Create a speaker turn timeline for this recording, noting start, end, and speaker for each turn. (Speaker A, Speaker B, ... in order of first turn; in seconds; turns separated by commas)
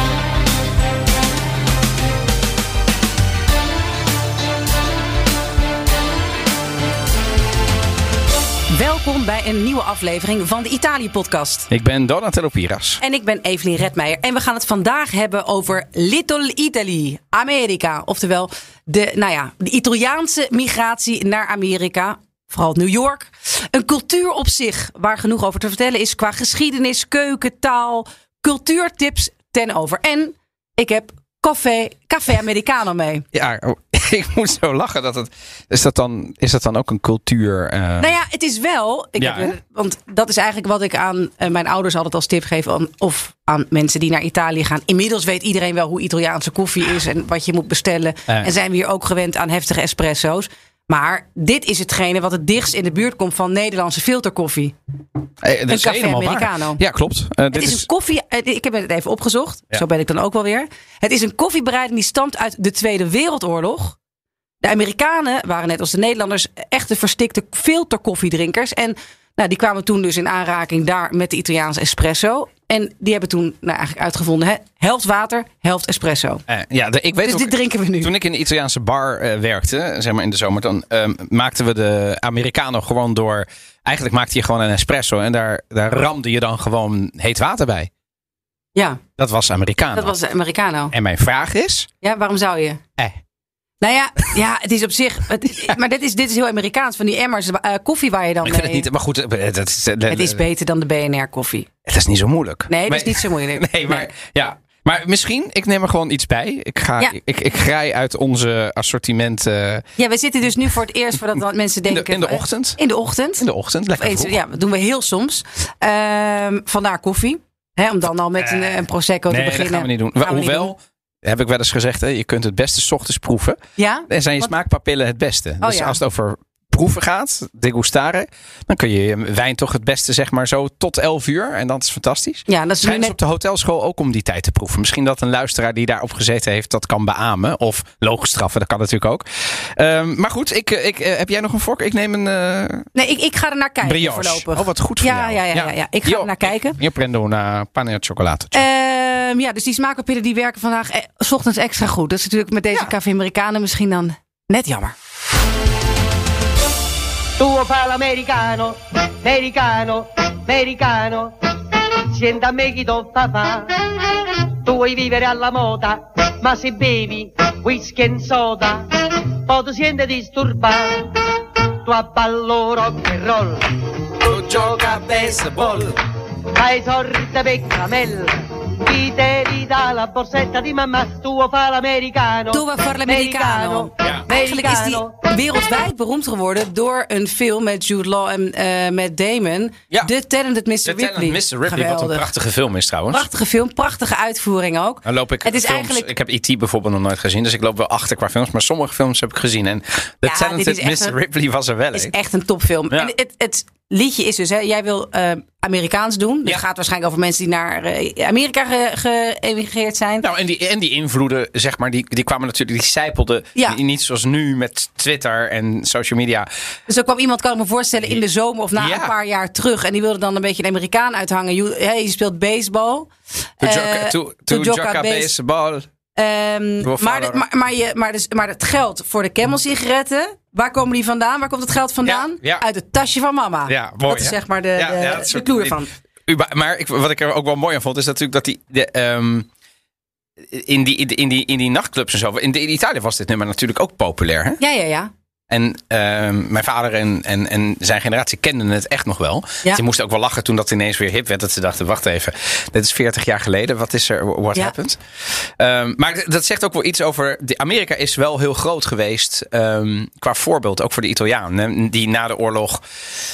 Speaker A: 8.7-11.7, Speaker B: 11.7-13.0, Speaker A: 13.0-33.2, Speaker B: 33.3-38.1, Speaker A: 38.0-54.8, Speaker B: 39.2-39.5, Speaker B: 55.4-57.9, Speaker A: 55.7-56.8, Speaker A: 57.5-64.0, Speaker A: 64.6-76.4, Speaker B: 76.5-87.9, Speaker A: 77.2-78.1, Speaker A: 88.8-89.0, Speaker B: 89.2-90.1, Speaker A: 89.9-90.9, Speaker B: 90.9-91.9, Speaker A: 92.0-92.8, Speaker A: 93.8-98.8, Speaker B: 98.4-100.4, Speaker A: 100.1-101.7, Speaker B: 101.9-109.9, Speaker A: 102.7-104.1, Speaker A: 110.0-113.5, Speaker B: 111.9-112.8, Speaker B: 113.4-114.3, Speaker A: 114.0-120.7, Speaker B: 118.4-142.9, Speaker A: 123.8-124.5, Speaker A: 125.6-126.0, Speaker A: 132.5-133.2, Speaker A: 142.9-146.8, Speaker B: 143.8-148.6, Speaker A: 148.5-154.9, Speaker C: 157.4-171.2, Speaker C: 171.8-175.9, Speaker B: 174.2-175.9, Speaker C: 176.6-185.2, Speaker A: 182.5-192.3, Speaker B: 184.0-184.3, Speaker B: 190.9-193.3, Speaker A: 193.1-196.1, Speaker B: 195.1-202.1, Speaker A: 200.2-201.2, Speaker A: 201.9-210.2, Speaker B: 210.2-216.5, Speaker A: 216.9-225.3, Speaker B: 218.8-219.1, Speaker B: 223.6-225.9, Speaker A: 226.2-235.9, Speaker B: 226.8-227.4, Speaker B: 232.1-232.7, Speaker B: 233.7-235.8, Speaker B: 236.3-239.5, Speaker B: 240.5-244.6, Speaker A: 244.6-245.1, Speaker B: 245.5-255.0, Speaker B: 255.6-262.8